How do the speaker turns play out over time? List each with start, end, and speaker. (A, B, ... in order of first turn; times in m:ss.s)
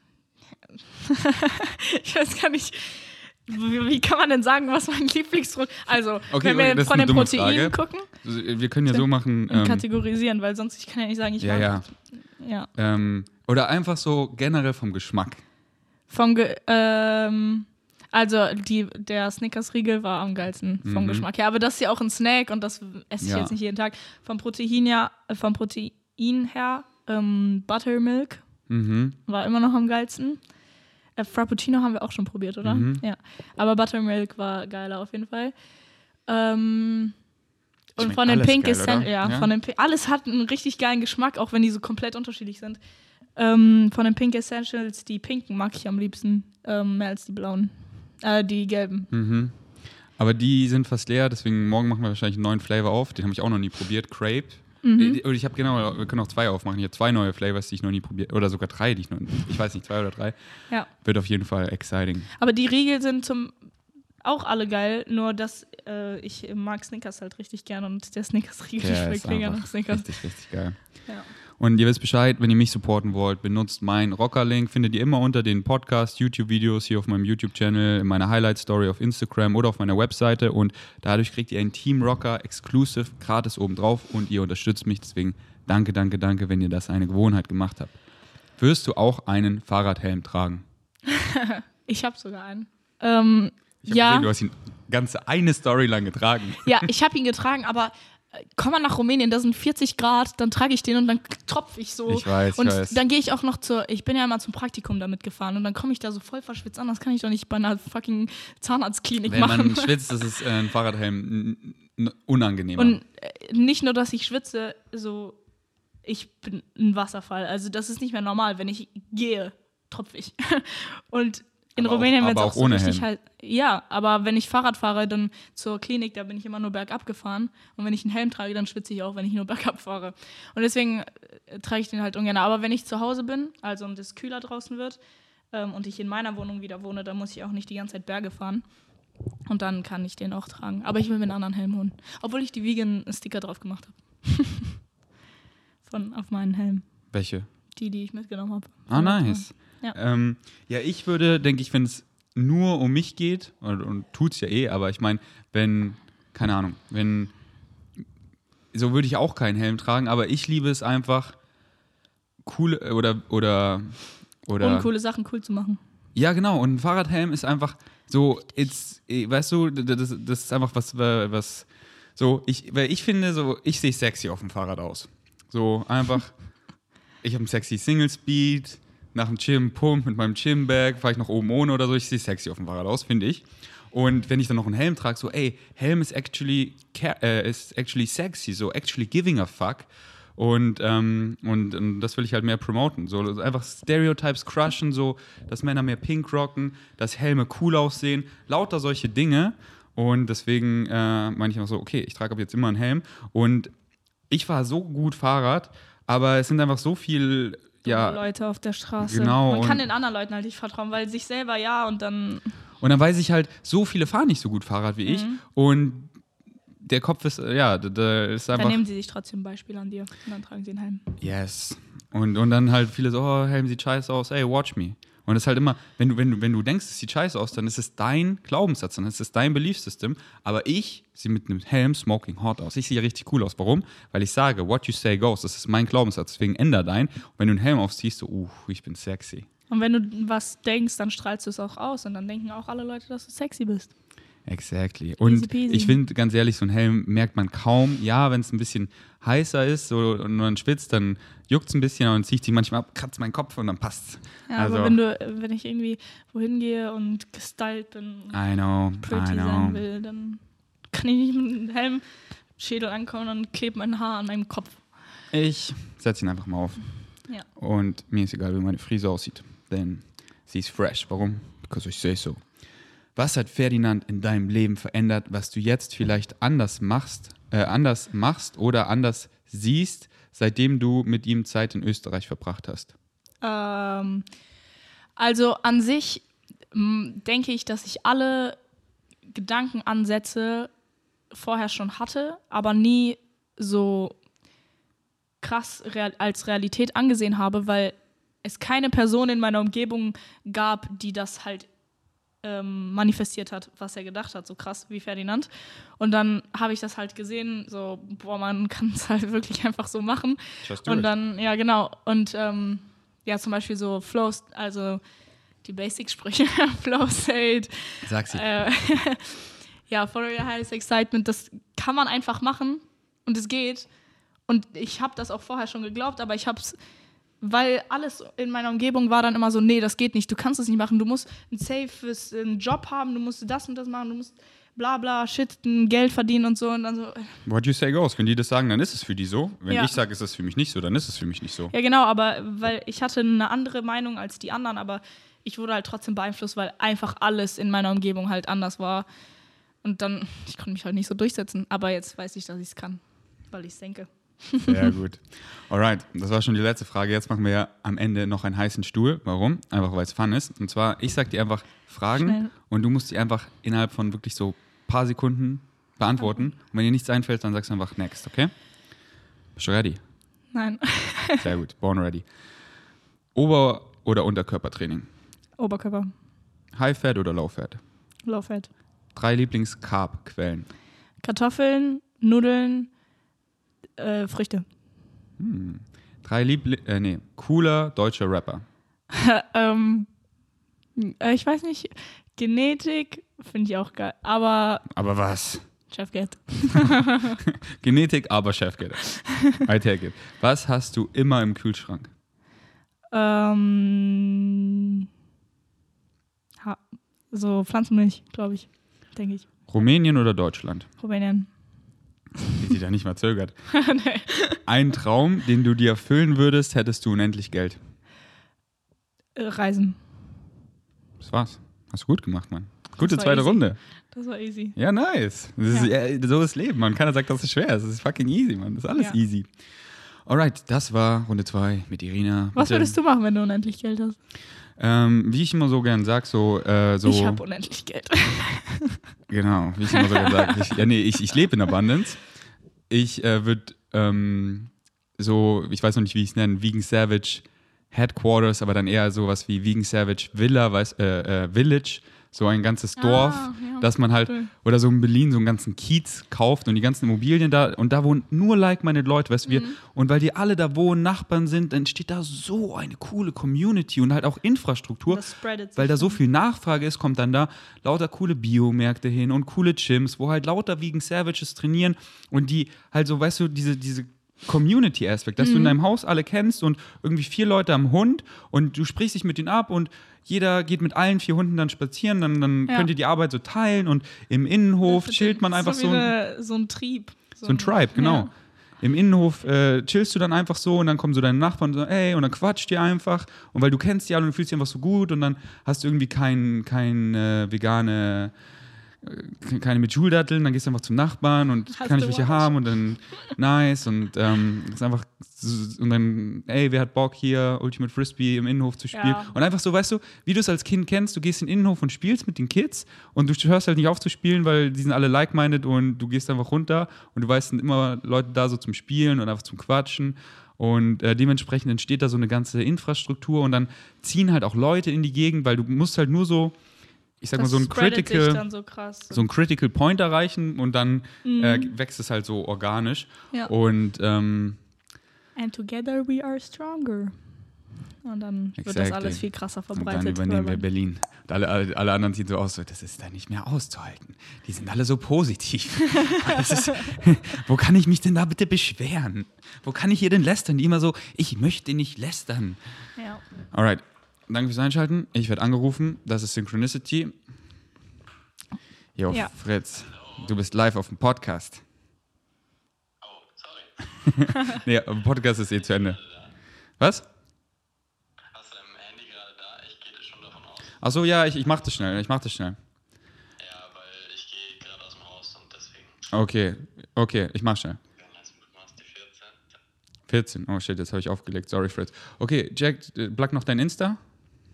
0:01.0-0:08.1 A
0:06.3-0:09.8 B
0:08.9-0:12.7 A
0:11.4-0:11.9 B
0:12.7-0:15.4 B
0:16.1-0:28.4 A
0:20.8-0:21.3 B
0:23.2-0:23.5 B
0:28.7-0:29.2 B
0:29.3-0:30.4 A
0:31.2-0:35.5 A
0:32.6-0:33.0 B
0:36.3-0:37.2 A
0:38.0-0:42.8 A
0:38.0-0:39.5 B
0:43.4-0:49.1 A
0:49.1-1:02.3 B
0:54.8-0:55.2 A
1:02.4-1:03.6 A
1:04.2-1:10.4 A
1:08.8-1:28.0 B
1:28.6-1:30.6 B
1:31.1-1:34.3 A
1:33.8-1:36.7 B
1:36.6-1:49.9 A
1:42.1-1:43.0 B
1:49.2-1:53.0 B
1:52.8-1:55.4 A
1:56.0-2:15.0 A
2:01.8-2:03.1 B
2:15.5-2:18.8 A
2:19.5-2:24.8 A
2:25.8-2:27.1 A
2:27.1-2:27.5 B
2:27.7-2:30.0 A
2:28.9-2:37.3 B
2:38.7-2:41.4 B
2:42.4-2:44.9 B
2:44.6-2:45.8 A
2:46.2-2:56.6 B
2:57.2-3:23.7 B
3:24.3-3:28.2 B
3:27.8-3:32.6 A
3:29.0-3:29.8 B
3:32.8-3:36.2 B
3:35.1-3:35.4 A
3:36.8-3:38.8 B
3:38.6-3:41.0 A
3:41.2-3:59.5 B
3:59.7-4:03.9 A
4:04.5-4:15.0 B
4:05.2-4:06.0 A
4:14.5-4:18.4 A
4:18.3-4:19.8 B
4:19.0-4:22.0 A
4:22.6-4:24.9 A
4:25.3-4:42.9 B
4:43.4-4:44.3 A
4:45.2-4:48.6 A
4:49.3-4:50.7 A
4:51.3-4:54.2 A
4:55.4-5:01.7 A
5:02.4-5:15.0 A
5:10.6-5:11.1 B
5:15.6-5:23.9 A
5:18.0-5:18.4 B
5:24.5-5:26.8 A
5:27.4-5:37.4 A
5:37.4-5:41.7 B
5:41.7-5:49.1 A
5:49.8-5:54.8 A
5:54.6-6:10.0 B
6:02.2-6:02.5 A
6:10.5-6:11.5 A
6:11.4-6:12.7 B
6:13.3-6:15.1 B
6:15.6-6:16.1 A
6:16.7-6:17.8 B
6:18.2-6:18.7 A
6:19.1-6:20.7 B
6:21.2-6:22.9 A
6:24.0-6:24.6 A
6:25.4-6:28.6 B
6:29.1-6:30.1 A
6:31.0-6:34.9 A
6:34.9-6:35.9 B
6:35.9-6:37.4 A
6:37.8-6:42.1 B
6:43.1-6:44.6 A
6:46.6-6:49.5 A
6:49.7-6:50.9 B
6:51.0-6:51.5 A
6:52.6-6:53.8 B
6:53.7-6:54.6 A
6:54.6-6:57.8 B
6:59.4-7:00.0 A
7:01.2-7:03.8 B
7:03.0-7:04.8 A
7:04.8-7:09.5 B
7:10.2-7:13.0 B
7:12.6-7:14.2 A
7:14.8-7:17.4 B
7:17.0-7:19.0 A
7:19.3-8:06.1 B
7:33.0-7:34.5 A
7:39.5-7:39.8 A
7:45.1-7:46.2 A
7:55.4-7:55.8 A
8:04.8-8:08.3 A
8:07.4-8:18.4 B
8:19.0-8:46.6 B
8:21.7-8:22.6 A
8:28.9-8:29.4 A
8:47.2-8:48.5 B
8:47.4-8:49.2 A
8:49.1-8:54.6 B
8:51.2-8:51.7 A
8:55.4-8:57.2 A
8:58.0-9:00.6 A
8:58.6-9:12.9 B
9:13.0-9:13.2 A
9:13.5-9:17.3 B
9:19.0-9:21.6 B
9:23.0-9:24.3 C
9:24.2-9:27.1 B
9:28.3-9:30.8 C
9:30.8-9:32.6 B
9:33.4-9:36.1 C
9:36.1-9:37.8 B
9:38.0-9:39.4 C
9:40.1-9:44.0 B